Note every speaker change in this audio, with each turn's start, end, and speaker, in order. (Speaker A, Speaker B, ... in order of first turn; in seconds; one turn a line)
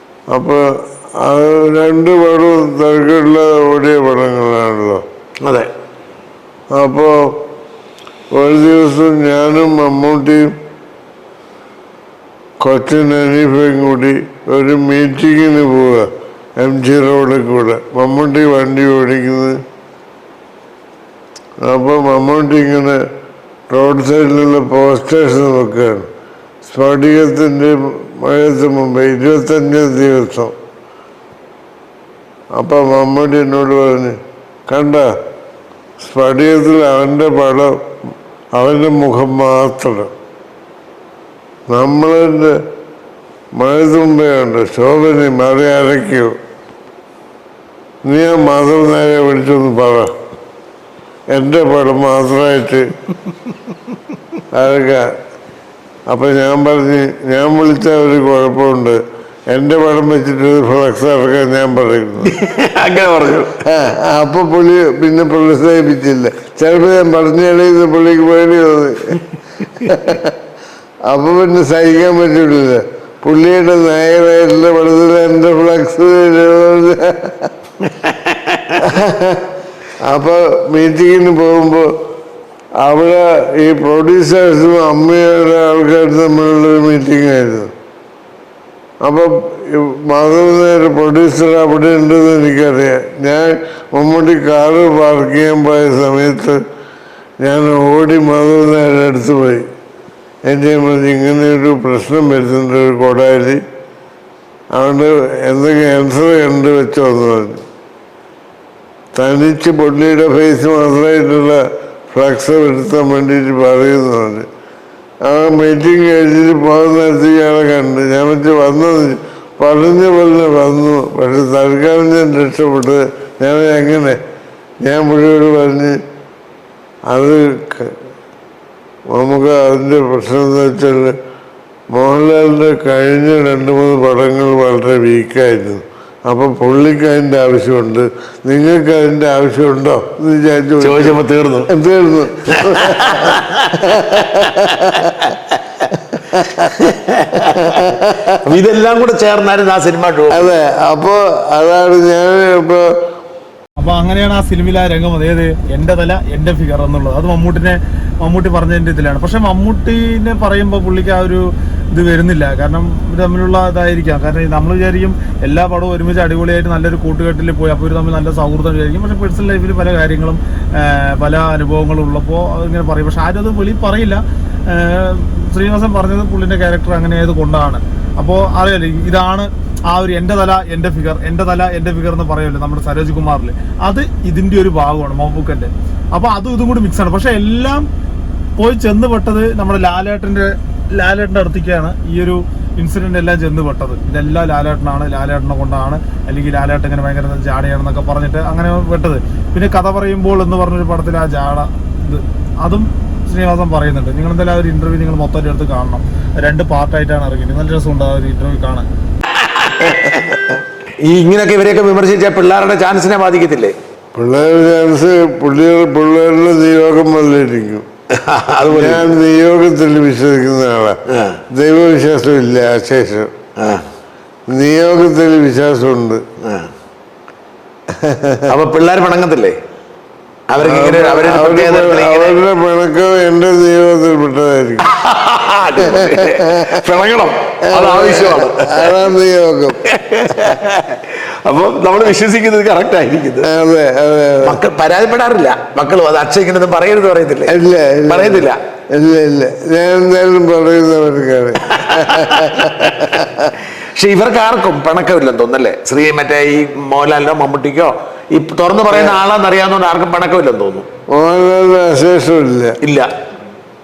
Speaker A: 0.3-0.6
Speaker A: 1.2-5.0
Speaker B: 5.4-5.7
Speaker A: 6.7-7.4
Speaker A: 8.3-10.5
Speaker A: 12.6-19.6
Speaker A: 21.6-23.0
Speaker A: 23.7-26.1
Speaker A: 26.6-30.5
Speaker A: 32.5-34.1
Speaker A: 34.7-35.1
Speaker A: 36.0-37.8
Speaker A: 38.5-40.1
Speaker A: 41.7-42.5
Speaker A: 43.5-46.3
Speaker A: 48.0-50.1
Speaker A: 51.3-52.9
Speaker A: 54.5-55.1
Speaker A: 56.1-62.4
Speaker B: 62.2-63.5
Speaker A: 63.6-69.2
Speaker A: 69.8-70.3
Speaker A: 71.1-77.5
Speaker B: 78.1-78.8
Speaker A: 78.8-79.5
Speaker A: 80.0-81.9
Speaker A: 82.8-87.7
Speaker A: 89.0-96.6
Speaker A: 97.4-99.6
Speaker A: 100.5-103.6
Speaker A: 104.7-107.6
Speaker A: 109.1-114.5
Speaker A: 115.2-124.2
Speaker A: 124.8-126.0
Speaker A: 127.1-128.0
Speaker A: 129.1-131.2
Speaker A: 131.9-145.1
Speaker B: 140.8-141.7
Speaker B: 142.5-145.5
Speaker A: 146.1-148.4
Speaker B: 146.6-150.5
Speaker A: 150.3-152.9
Speaker C: 153.8-187.8
Speaker C: 188.6-208.9
Speaker B: 209.4-210.4
Speaker B: 211.0-213.8
Speaker A: 214.1-217.8
Speaker B: 218.1-219.1
Speaker A: 218.7-223.3
Speaker B: 221.1-221.4
Speaker B: 223.6-223.8
Speaker A: 224.5-226.2
Speaker B: 226.4-226.7
Speaker A: 227.9-228.5
Speaker B: 228.5-229.6
Speaker B: 230.5-232.4
Speaker A: 230.6-234.8
Speaker B: 234.9-239.1
Speaker A: 235.8-236.8
Speaker A: 237.7-239.8
Speaker B: 239.8-243.5
Speaker A: 243.4-244.6
Speaker B: 244.4-248.6
Speaker A: 247.5-253.5
Speaker B: 251.7-253.3
Speaker B: 253.9-260.9
Speaker A: 261.1-262.8
Speaker B: 262.8-263.1